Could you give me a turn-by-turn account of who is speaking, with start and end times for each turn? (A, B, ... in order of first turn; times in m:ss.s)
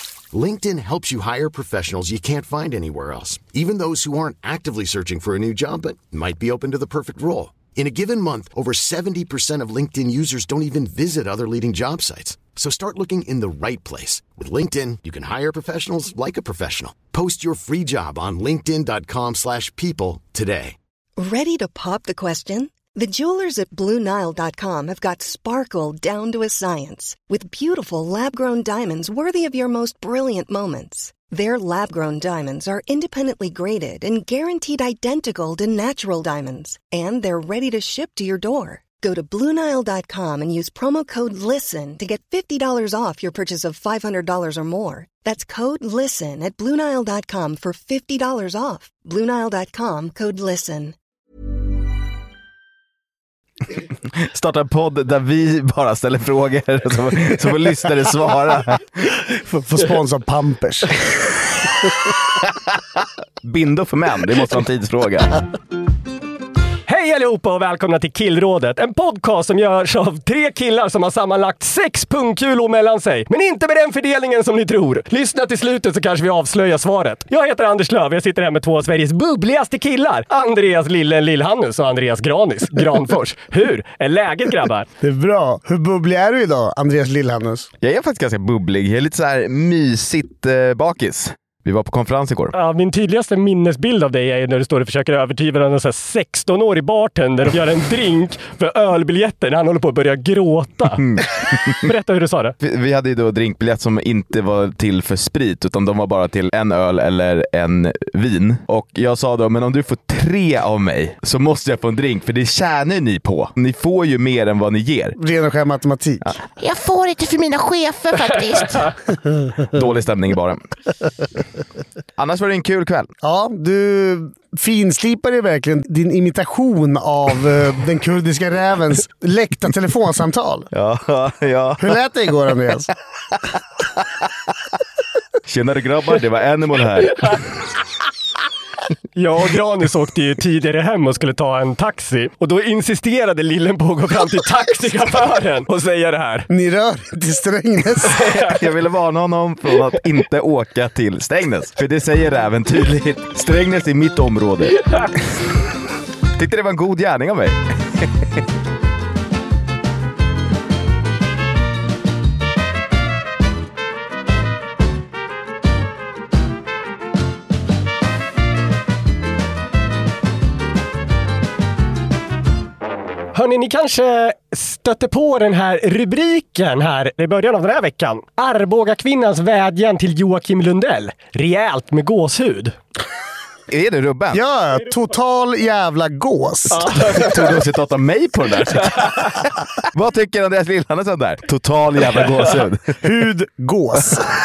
0:00.3-0:20.8 A
0:21.2-0:50.9 B
0:54.1-0:58.8 C
0:59.3-1:00.9 D
1:03.4-1:05.3 C
1:06.9-1:24.9 E
1:25.0-1:27.7 D
1:27.8-1:32.5 C
1:32.5-1:41.0 E
1:41.0-1:41.7 C
1:41.8-1:42.5 E
1:42.6-1:55.2 C
1:55.2-1:56.4 D
1:56.6-1:58.9 F
1:59.7-2:00.6 C
2:02.2-2:03.1 C
2:03.2-2:10.7 D
2:10.7-2:11.9 C
2:11.8-2:12.9 D
2:15.4-2:17.4 C
2:19.2-2:26.5 E
2:26.5-2:28.2 D
2:28.3-2:34.8 C
2:36.4-2:38.1 C
2:53.3-3:02.7 E
3:03.7-3:04.4 C
3:04.3-3:06.9 D
3:06.7-3:07.3 E
3:07.2-3:13.0 C
3:13.0-3:14.3 D